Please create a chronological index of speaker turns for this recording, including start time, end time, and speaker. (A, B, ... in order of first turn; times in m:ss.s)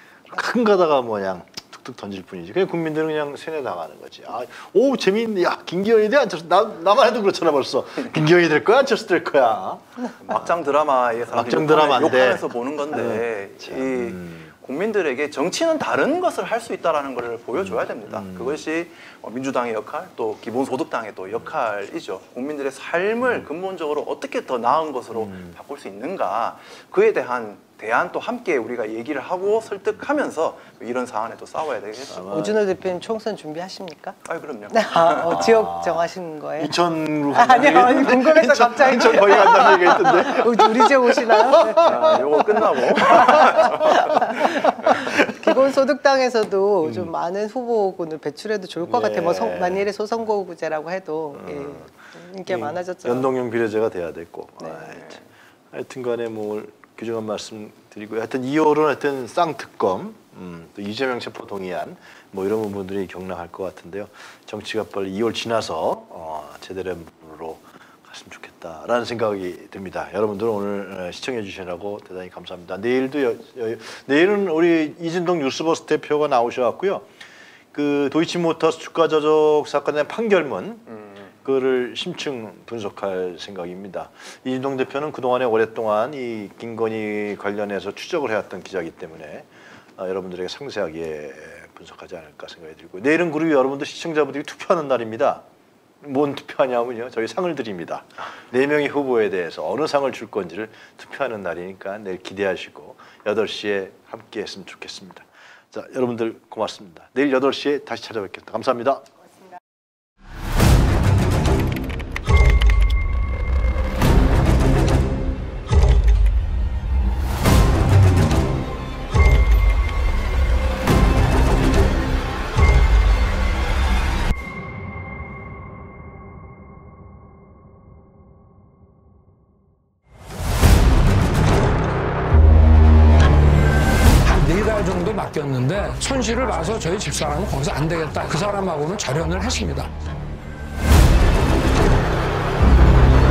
0:00.3-0:10.5 A
0:10.2-0:32.3 B
0:11.3-0:14.5 A
0:17.6-0:18.6 A
0:25.1-0:25.6 A
0:32.1-0:32.6 A
0:32.3-0:34.2 C
0:34.3-0:35.5 B
0:34.7-0:36.7 C
0:35.2-0:45.7 A
0:37.3-0:42.2 C
0:39.2-0:39.8 B
0:41.8-0:45.0 B
0:43.0-0:53.3 C
0:46.8-0:47.1 A
0:48.8-0:49.9 A
0:51.3-0:51.9 A
0:52.4-0:55.2 A
0:54.6-0:54.9 C
0:54.9-0:55.2 B
0:55.7-1:17.1 A
1:17.7-1:20.9 A
1:21.4-1:35.4 A
1:36.0-1:49.0 A
2:14.2-2:19.9 D